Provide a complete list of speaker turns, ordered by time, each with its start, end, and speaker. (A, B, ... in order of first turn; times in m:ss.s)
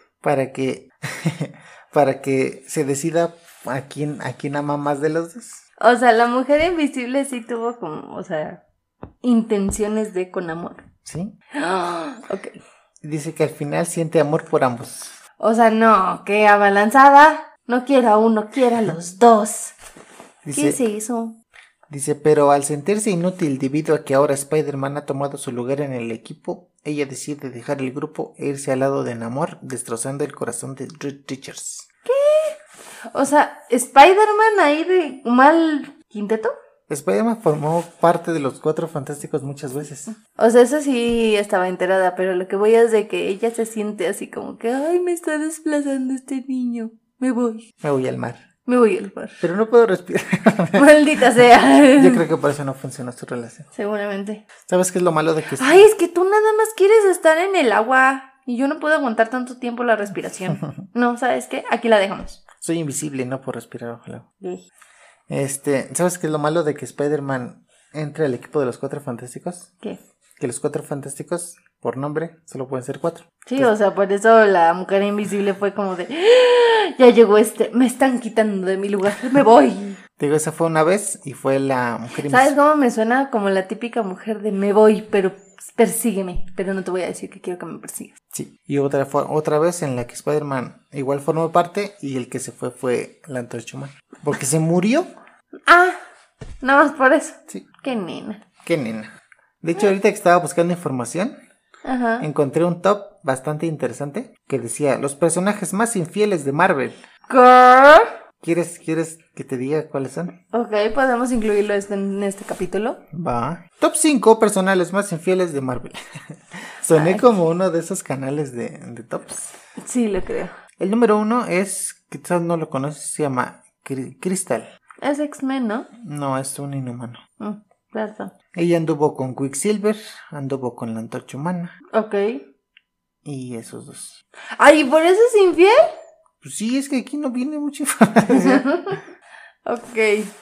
0:00.2-0:05.6 A
0:05.8-0:08.6 B
0:09.2-0:10.8 B
0:11.0-0:11.3 A
0:11.6-0:12.6 B
0:13.0-0:15.2 A
0:15.4-0:19.8 B
0:20.4-0:20.8 A
0:20.5-0:21.4 B
0:21.9-0:31.9 A
0:32.0-0:32.6 B
0:33.1-0:36.5 B
0:36.9-0:40.2 A
0:40.4-0:47.6 B
0:47.8-0:48.4 A
0:48.6-0:49.4 B
0:49.4-0:50.9 A
0:50.7-0:52.2 B
0:51.9-0:53.7 A
0:53.7-0:54.4 B
0:54.6-0:55.9 A
0:55.6-1:02.4 B
1:02.6-1:04.2 A
1:05.3-1:09.7 A
1:10.4-1:13.7 A
1:13.4-1:20.0 B
1:20.2-1:22.5 A
1:22.2-1:28.1 B
1:28.3-1:35.1 A
1:35.7-1:36.0 B
1:36.6-1:38.4 B
1:38.6-1:39.1 A
1:39.6-1:41.3 A
1:41.8-1:42.3 B
1:42.2-1:47.0 A
1:47.3-1:48.1 B
1:48.4-1:50.3 A
1:50.5-1:53.0 B
1:53.1-1:56.0 A
1:56.5-1:59.5 A
1:56.9-1:57.2 B
1:59.8-2:00.6 B
2:00.8-2:04.6 A
2:05.0-2:05.9 B
2:06.0-2:07.2 A
2:07.4-2:08.3 B
2:08.5-2:11.7 A
2:11.9-2:12.4 B
2:13.2-2:14.2 A
2:14.6-2:15.8 B
2:16.4-2:18.9 A
2:18.3-2:19.0 B
2:19.6-2:20.3 B